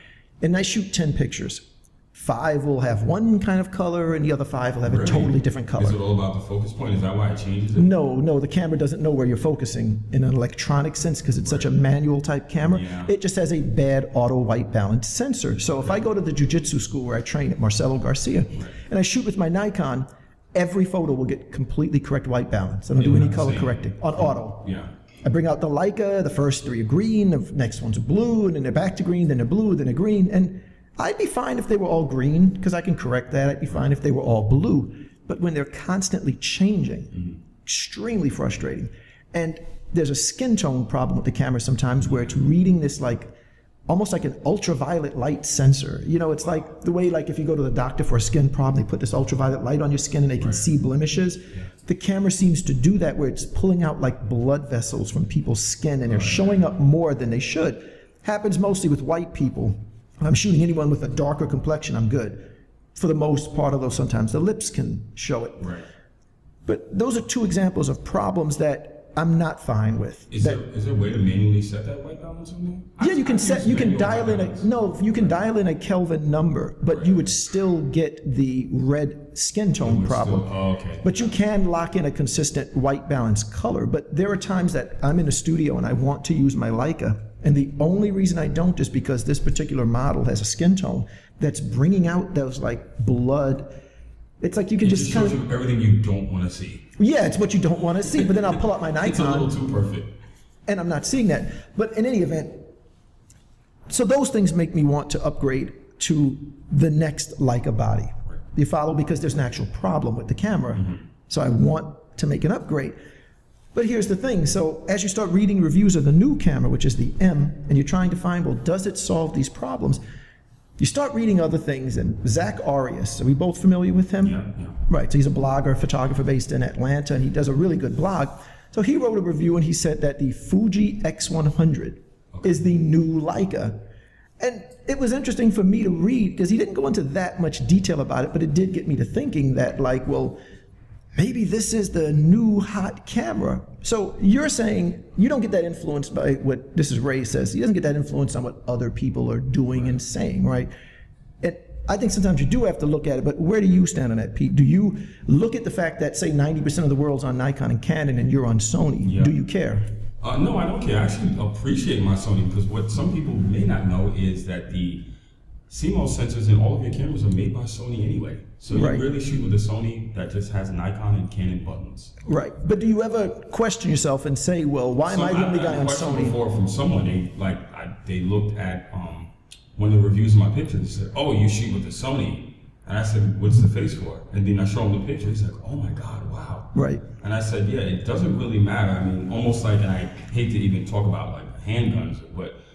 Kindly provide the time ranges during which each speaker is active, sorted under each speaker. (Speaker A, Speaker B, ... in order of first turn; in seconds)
Speaker A: 0.4-6.0, 7.8-43.3, 43.9-65.7, 66.7-70.6, 73.0-80.5, 81.0-93.8, 94.4-95.4, 97.0-99.5, 100.7-102.7, 103.9-113.0, 113.7-120.0, 120.8-133.8, 134.4-140.4, 141.2-150.7, 151.4-159.9, 168.7-169.1, 172.2-176.3, 186.7-187.1
Speaker B: 4.9-7.9, 12.6-13.1, 22.9-24.9, 42.0-42.4, 50.4-50.6, 56.1-56.6, 65.6-65.9, 70.3-75.4, 76.9-77.2, 79.8-81.2, 94.8-96.9, 99.0-100.2, 124.2-124.8, 132.3-132.6, 159.0-159.4, 160.2-165.1, 165.7-172.1, 175.1-192.6